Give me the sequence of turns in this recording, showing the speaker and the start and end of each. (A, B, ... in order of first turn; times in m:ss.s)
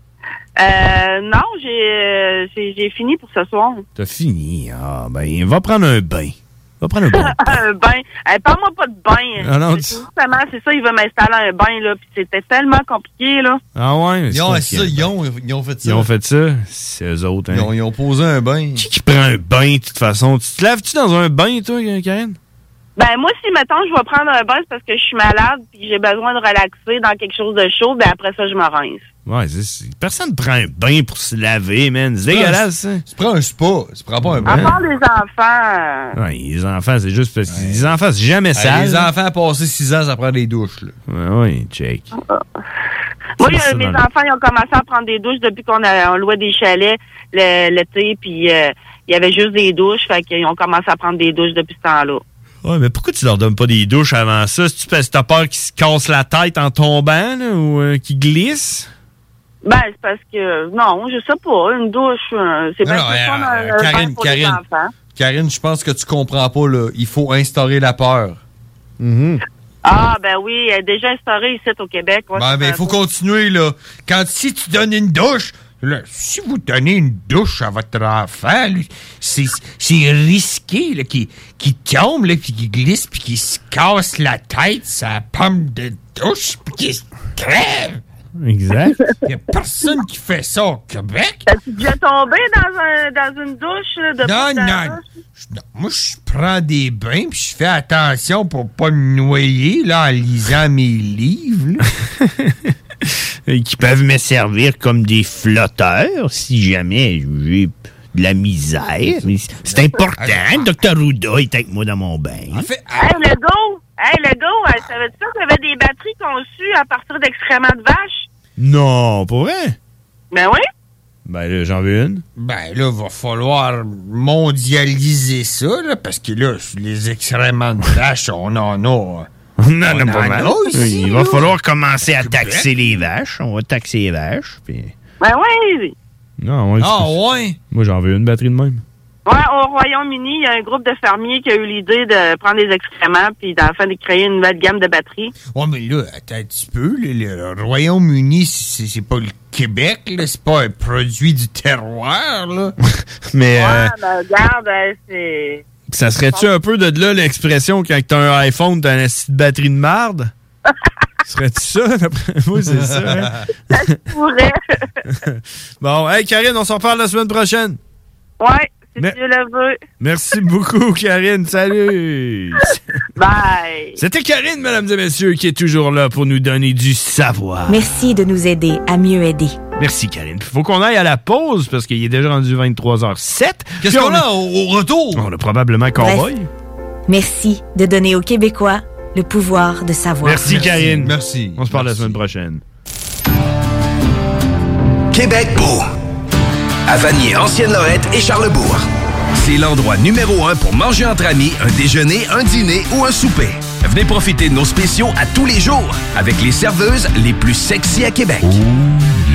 0:00.6-0:03.8 A
0:04.0-0:07.6 B
0:07.2-0:13.6 A
0:09.4-0:10.0 B
0:13.7-0:15.1 B
0:14.3-0:16.1 C
0:15.8-0:17.7 B
0:17.5-0:18.8 C
0:18.8-0:22.4 B
0:23.0-0:29.0 A
0:29.2-0:33.0 B
0:32.3-0:34.8 C
0:34.4-0:34.8 B
0:34.5-0:36.1 A
0:36.2-0:39.1 B
0:37.5-0:37.8 C
0:38.5-0:40.9 C
0:41.1-0:42.1 B
0:43.4-0:52.2 A
0:43.4-0:44.0 B
0:52.6-0:58.9 B
0:59.6-1:04.9 A
1:02.8-1:04.6 C
1:05.1-1:08.4 C
1:09.0-1:09.4 B
1:09.8-1:12.9 A
1:12.3-1:28.0 C
1:28.4-1:29.0 B
1:29.2-1:31.4 C
1:31.5-1:35.0 A
1:34.2-1:41.8 C
1:42.3-1:42.5 B
1:43.5-1:52.7 B
1:49.7-1:50.7 C
1:52.5-1:53.2 C
1:53.0-1:58.3 A
1:58.6-1:59.8 B
2:00.3-2:00.6 A
2:01.2-2:02.2 B
2:02.4-2:09.3 C
2:09.6-2:14.9 B
2:09.8-2:11.5 C
2:12.2-2:12.7 C
2:15.2-2:15.9 A
2:16.4-2:17.2 B
2:16.8-2:17.6 C
2:17.7-2:18.8 B
2:19.2-2:25.3 A
2:25.5-2:32.7 C
2:33.3-2:33.9 B
2:33.5-2:35.6 A
2:35.9-2:40.3 B
2:41.2-2:43.3 B
2:42.6-2:43.4 C
2:43.7-2:44.6 A
2:45.3-2:47.8 B
2:48.4-2:49.8 A
2:50.0-2:52.8 B
2:53.2-2:54.0 A
2:54.0-2:57.9 B
2:57.7-2:59.6 D
2:59.8-3:04.2 B
3:03.8-3:05.3 C
3:05.1-3:06.5 B
3:06.0-3:06.3 D
3:07.1-3:10.4 D
3:10.2-3:12.6 B
3:10.4-3:12.2 C
3:15.1-3:15.8 E
3:16.8-3:28.6 E